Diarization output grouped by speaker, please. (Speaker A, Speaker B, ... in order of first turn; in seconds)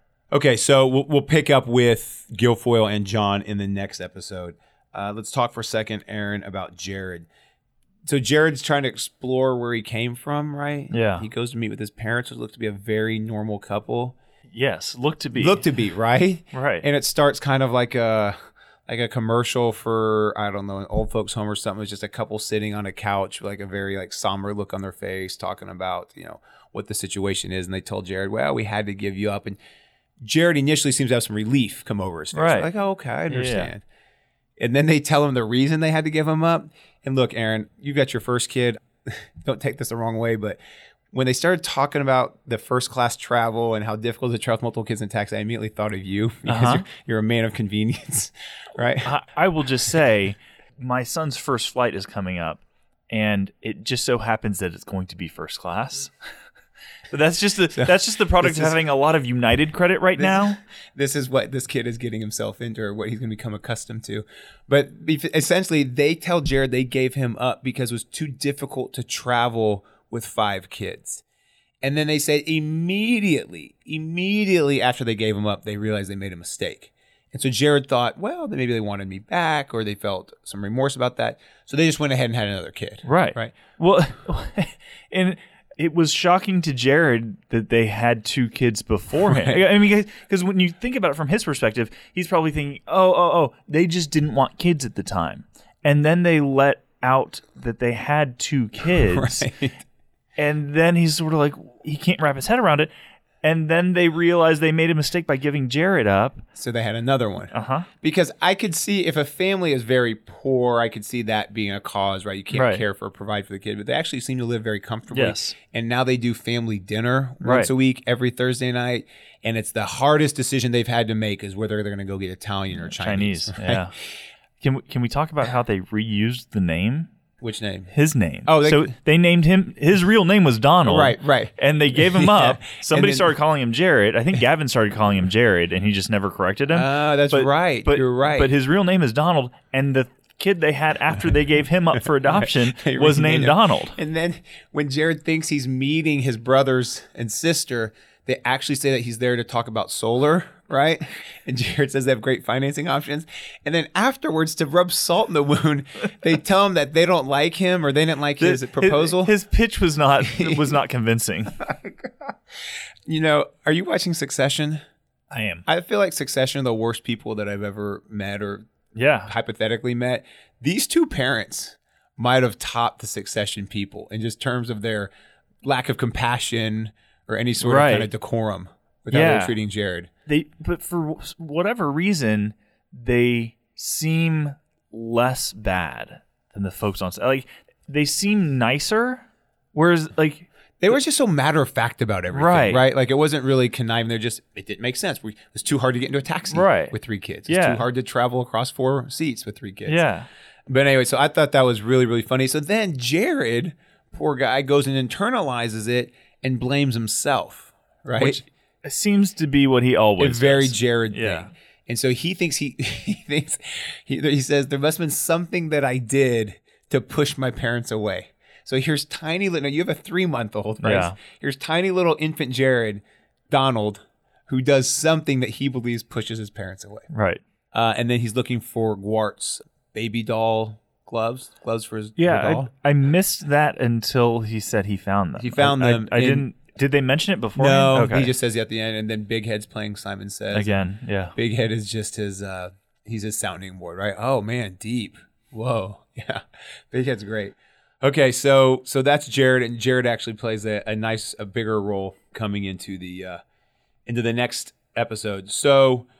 Speaker A: 0.3-7.3, 8.1-14.2, 15.3-29.6, 30.2-33.8, 34.6-40.6, 41.1-49.1, 57.8-58.8, 60.2-71.2, 71.8-83.6, 89.2-89.6, 98.9-99.8, 106.5-123.9, 127.4-127.9, 128.4-128.9, 130.8-133.3, 136.7-138.5, 142.1-159.3, 160.3-160.7, 161.6-162.3, 163.1-164.8, 165.7-168.7, 169.2-175.1, 175.6-180.1, 190.8-200.1, 200.7-208.4, 210.2-227.1, 227.7-232.7, 235.4-236.5, 237.6-240.7, 241.3-253.4, 254.1-256.1
Speaker B: 10.9-11.3, 14.5-15.6, 16.5-16.9, 32.3-32.7, 33.3-33.7, 46.5-46.9, 49.0-56.1, 57.1-60.6, 83.0-99.5, 100.4-102.9, 103.4-106.4, 107.5-107.9, 112.5-112.8, 115.1-115.5, 117.4-117.7, 122.9-123.9, 124.6-127.1, 127.9-144.0, 158.4-161.6, 165.3-165.6, 168.9-169.3, 177.6-178.1, 179.1-179.6, 180.3-190.5, 192.3-192.8, 196.5-196.9, 197.5-197.8, 199.8-200.3, 208.2-211.5, 220.8-221.2, 227.1-227.4, 232.2-238.3, 240.5-241.3